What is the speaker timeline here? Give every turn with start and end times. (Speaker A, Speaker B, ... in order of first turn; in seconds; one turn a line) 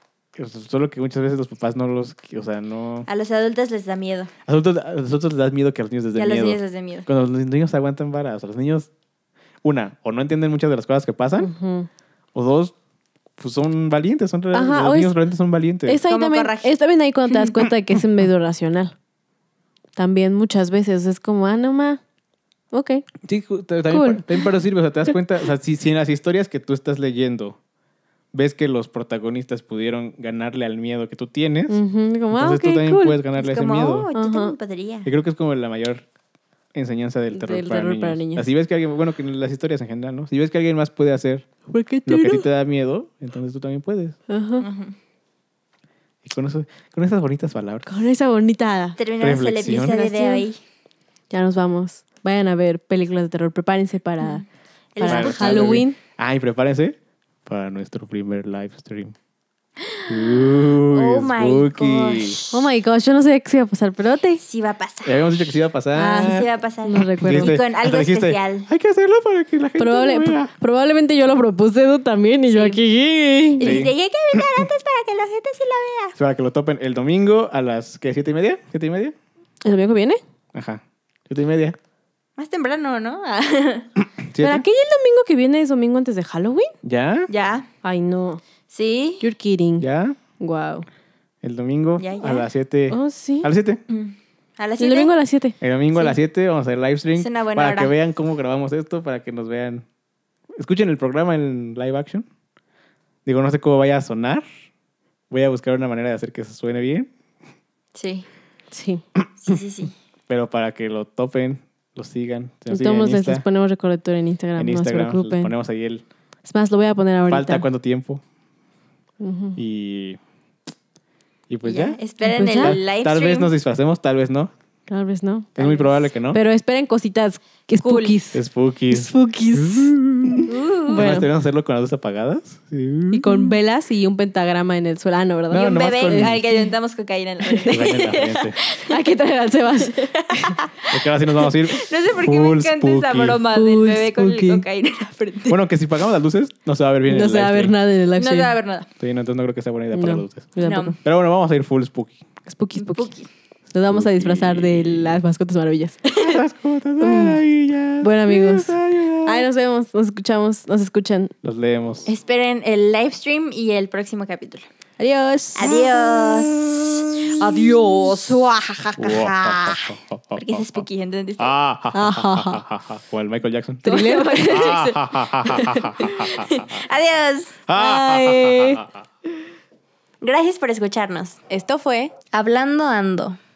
Speaker A: 0.3-3.1
Speaker B: 3.1-4.3
Speaker A: 4.5-8.9
Speaker B: 6.1-7.1
Speaker A: 9.6-11.5
Speaker C: 11.4-11.9
Speaker A: 12.3-12.7
Speaker A: 13.4-16.0
Speaker C: 14.5-15.1
Speaker C: 15.8-18.9
Speaker B: 16.1-16.7
Speaker C: 19.9-22.0
Speaker C: 22.7-23.1
Speaker A: 23.2-27.6
Speaker C: 23.9-24.4
Speaker A: 28.3-31.8
Speaker C: 31.7-33.2
Speaker A: 32.3-34.1
Speaker B: 33.4-35.1
Speaker C: 34.1-34.5
Speaker A: 35.0-36.0
Speaker A: 36.7-41.5
Speaker C: 37.3-38.4
Speaker C: 41.7-42.5
Speaker A: 42.0-44.2
Speaker C: 44.3-44.7
Speaker B: 44.6-44.9
Speaker A: 46.2-47.9
Speaker C: 47.9-49.0
Speaker B: 49.0-50.6
Speaker A: 49.2-50.0
Speaker C: 49.9-50.5
Speaker C: 51.3-54.4
Speaker B: 54.9-55.8
Speaker C: 55.0-56.0
Speaker A: 55.0-59.1
Speaker B: 59.8-62.7
Speaker A: 60.1-62.4
Speaker C: 62.5-64.4
Speaker B: 64.4-65.2
Speaker A: 65.0-66.5
Speaker C: 66.0-67.6
Speaker B: 66.0-68.7
Speaker A: 67.2-70.5
Speaker C: 69.8-73.8
Speaker B: 72.5-72.8
Speaker B: 73.6-76.2
Speaker A: 73.6-74.6
Speaker A: 76.2-79.1
Speaker C: 79.6-80.2
Speaker A: 80.5-81.8
Speaker B: 82.4-83.9
Speaker A: 84.2-84.6
Speaker C: 84.4-86.7
Speaker A: 86.8-87.3
Speaker B: 87.3-87.7
Speaker C: 87.8-88.4
Speaker B: 88.7-89.2
Speaker C: 89.2-89.9
Speaker A: 89.8-90.2
Speaker C: 90.4-90.8
Speaker A: 91.4-93.8
Speaker B: 92.0-92.5
Speaker C: 92.9-93.5
Speaker B: 93.9-95.1
Speaker C: 94.8-95.5
Speaker A: 95.6-99.8
Speaker B: 97.2-97.9
Speaker A: 100.5-102.2
Speaker A: 103.2-104.4
Speaker A: 105.3-107.1
Speaker B: 107.9-108.2
Speaker C: 108.7-109.0
Speaker B: 109.4-109.9
Speaker A: 110.3-113.4
Speaker C: 112.7-115.5
Speaker A: 114.6-116.0
Speaker C: 116.4-117.7
Speaker A: 117.3-118.2
Speaker C: 119.2-119.6
Speaker A: 119.5-120.2
Speaker A: 121.5-124.5
Speaker B: 121.6-123.5
Speaker C: 122.2-122.8
Speaker C: 124.9-129.9
Speaker A: 125.6-126.4
Speaker B: 127.8-128.2
Speaker A: 128.3-133.5
Speaker B: 130.5-131.1
Speaker C: 130.9-131.3
Speaker C: 133.1-136.7
Speaker A: 135.5-136.4
Speaker B: 135.5-139.1
Speaker C: 137.5-137.8
Speaker A: 137.7-138.6
Speaker C: 138.8-140.6
Speaker B: 139.8-140.9
Speaker A: 140.9-143.4
Speaker B: 141.6-145.6
Speaker C: 143.5-144.6
Speaker A: 145.5-147.7
Speaker C: 147.1-148.5
Speaker B: 148.2-148.9
Speaker A: 149.0-152.2
Speaker C: 149.9-150.9
Speaker B: 150.6-151.0
Speaker C: 152.4-153.1
Speaker B: 152.8-153.3
Speaker C: 153.7-156.0
Speaker A: 153.9-155.2
Speaker B: 156.1-156.4
Speaker A: 156.2-159.5
Speaker C: 157.0-157.4
Speaker C: 158.0-161.3
Speaker A: 161.4-162.1
Speaker B: 162.1-164.7
Speaker C: 165.0-165.7
Speaker B: 165.6-169.8
Speaker A: 165.7-167.9
Speaker A: 169.0-170.8
Speaker B: 170.3-171.6
Speaker A: 171.4-173.8
Speaker C: 171.9-172.6
Speaker C: 173.8-174.6
Speaker B: 173.8-177.6
Speaker A: 174.4-176.8
Speaker A: 177.7-178.9
Speaker C: 177.7-178.8
Speaker B: 180.2-181.4
Speaker C: 181.5-182.1
Speaker B: 182.3-183.4